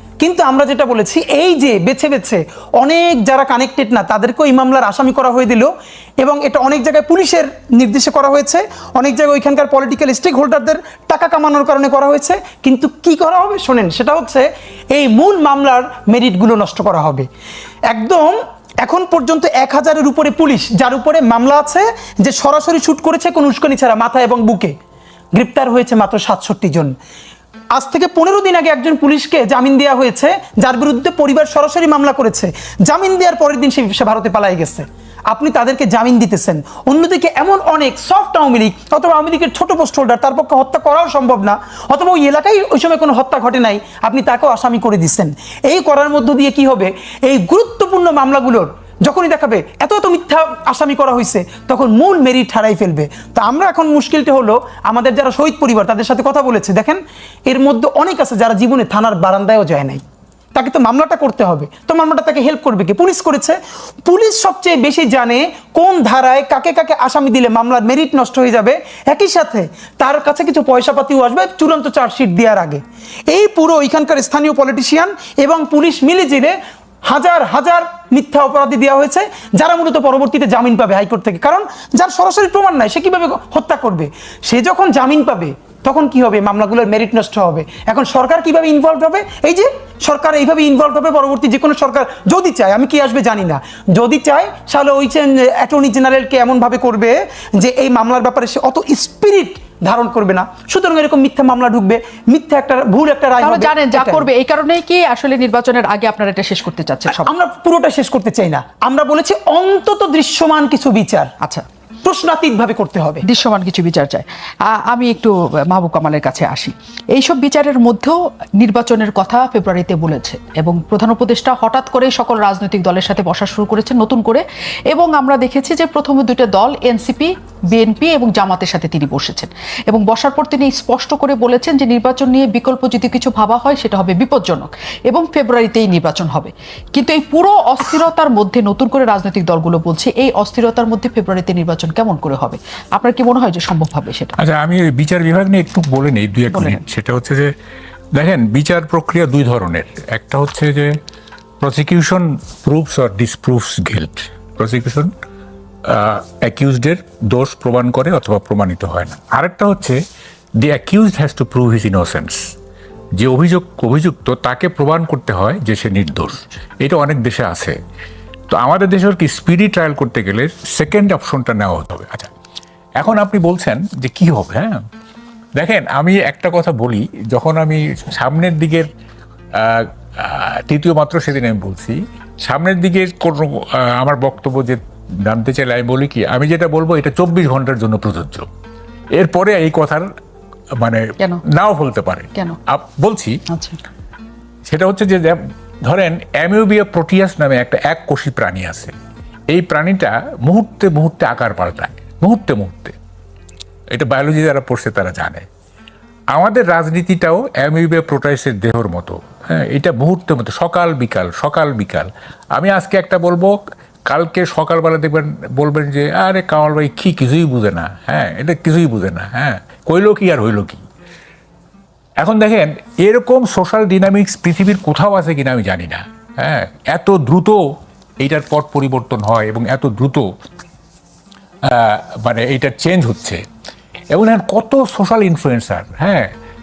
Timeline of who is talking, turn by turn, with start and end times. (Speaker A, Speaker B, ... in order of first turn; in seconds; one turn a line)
Speaker A: 0.2-17.3
Speaker A: 17.9-24.7
Speaker A: 25.4-26.9
Speaker A: 27.7-60.0
Speaker A: 60.5-104.3
Speaker B: 103.4-107.3
Speaker A: 107.1-111.3
Speaker A: 112.0-113.2
Speaker B: 113.2-144.4
Speaker C: 144.4-147.5
Speaker B: 146.5-146.8
Speaker C: 148.2-151.0
Speaker C: 151.6-155.1
Speaker C: 155.9-160.0
Speaker C: 160.6-162.4
Speaker C: 163.2-167.8
Speaker C: 168.5-172.3
Speaker C: 173.0-174.8
Speaker C: 175.6-178.9
Speaker C: 179.6-188.5
Speaker C: 189.1-190.1
Speaker C: 190.8-193.4
Speaker B: 193.5-193.8
Speaker C: 194.7-198.9
Speaker C: 199.5-203.0
Speaker C: 203.9-205.5
Speaker C: 206.3-220.8
Speaker C: 222.2-227.6
Speaker C: 228.2-230.2
Speaker C: 231.6-233.4
Speaker C: 234.1-236.3